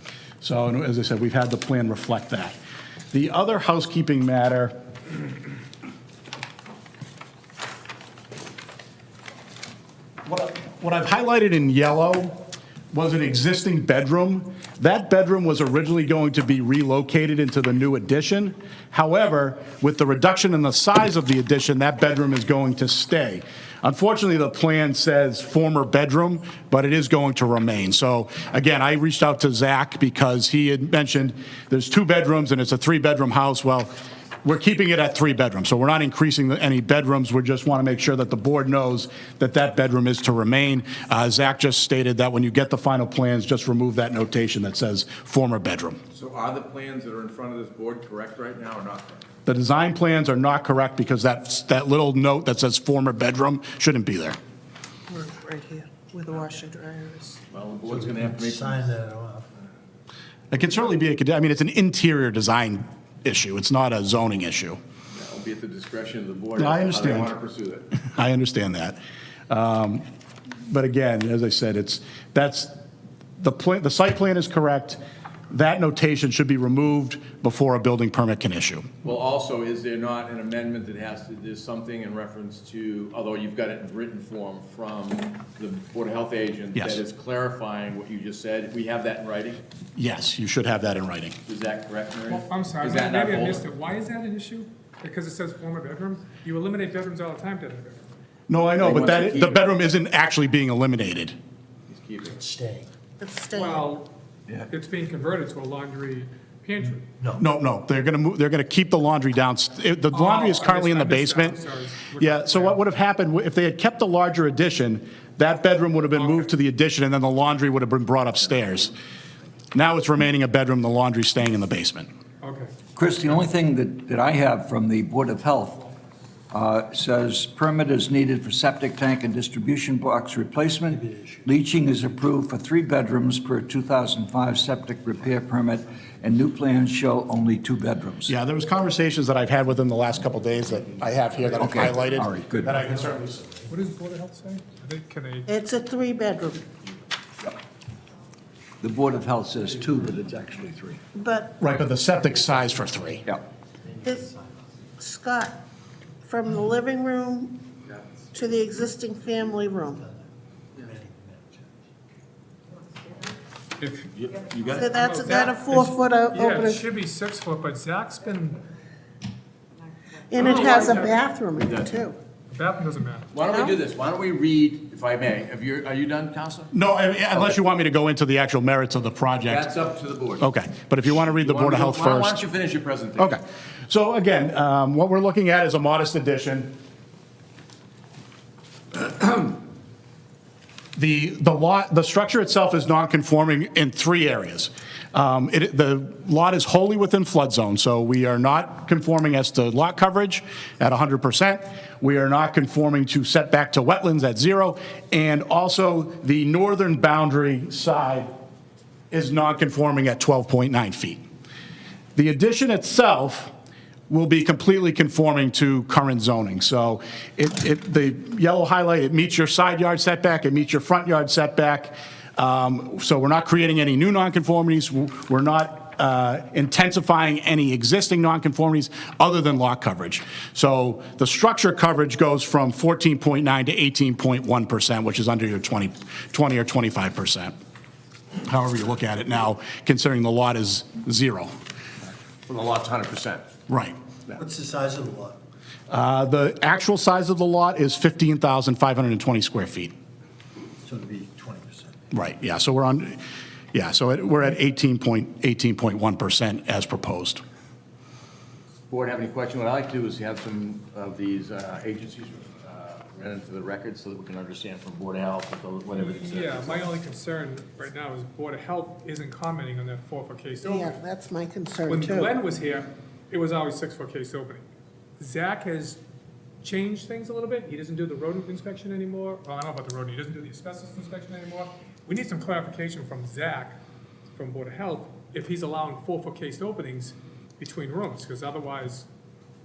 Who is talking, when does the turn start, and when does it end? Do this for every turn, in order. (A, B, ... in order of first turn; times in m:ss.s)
0:00.4-0:02.5 A
0:03.1-0:04.7 A
0:10.2-0:33.9 A
0:34.4-0:46.0 A
0:46.1-0:49.2 B
0:49.4-0:54.4 A
0:55.1-0:57.4 C
0:57.5-0:58.8 B
0:57.9-0:59.5 D
1:00.5-1:04.8 A
1:05.1-1:07.8 B
1:06.6-1:07.3 A
1:08.1-1:10.0 A
1:10.7-1:12.8 A
1:13.4-1:15.0 A
1:15.5-1:18.9 A
1:19.0-1:29.6 B
1:26.8-1:27.0 A
1:30.0-1:31.4 A
1:31.5-1:33.6 B
1:32.3-1:38.1 E
1:38.5-1:41.3 A
1:38.8-1:39.8 B
1:41.9-1:42.4 B
1:42.3-1:42.9 D
1:43.2-1:43.9 C
1:43.5-1:44.1 E
1:44.7-1:47.1 E
1:47.2-1:47.4 D
1:47.4-1:51.6 A
1:50.1-1:52.8 E
1:52.2-1:59.0 A
1:59.7-2:02.1 A
2:02.4-2:02.7 E
2:03.0-2:05.9 F
2:06.5-2:18.3 F
2:10.9-2:11.5 D
2:18.3-2:23.5 A
2:21.6-2:22.8 F
2:23.7-2:25.5 E
2:25.5-2:26.7 C
2:28.8-2:31.0 F
2:31.2-2:31.6 C
2:31.6-2:33.2 A
2:33.8-2:34.8 D
2:35.0-2:35.6 C
2:36.2-2:37.6 C
2:37.9-2:38.6 B
2:38.3-2:40.0 C
2:39.8-2:41.7 D
2:43.8-2:44.2 E
2:44.1-2:44.9 B
2:44.7-2:46.8 C
2:44.9-2:48.6 E
2:50.3-2:52.2 C
2:50.4-2:51.2 E
2:51.0-2:52.0 B
2:52.5-2:53.3 E
2:53.3-2:56.7 B
2:53.5-2:53.8 C
2:56.7-2:59.7 A
2:59.5-3:00.5 B
3:00.4-3:02.4 A
3:01.2-3:03.4 B
3:03.2-3:06.7 A
3:09.0-3:09.5 A
3:11.0-3:28.3 A
3:29.1-3:31.2 A
3:32.2-3:33.5 A
3:34.1-3:57.5 A
3:58.5-4:01.5 A
4:02.5-4:03.5 B
4:03.7-4:03.9 A
4:04.4-4:05.4 D
4:05.9-4:09.9 A
4:10.8-4:11.9 D
4:12.1-4:13.2 A
4:13.7-4:17.4 A
4:18.9-4:26.9 B
4:26.0-4:30.9 E
4:30.6-4:32.3 C
4:31.9-4:34.6 E
4:35.2-4:36.0 E
4:36.6-4:43.8 E
4:44.4-4:49.1 E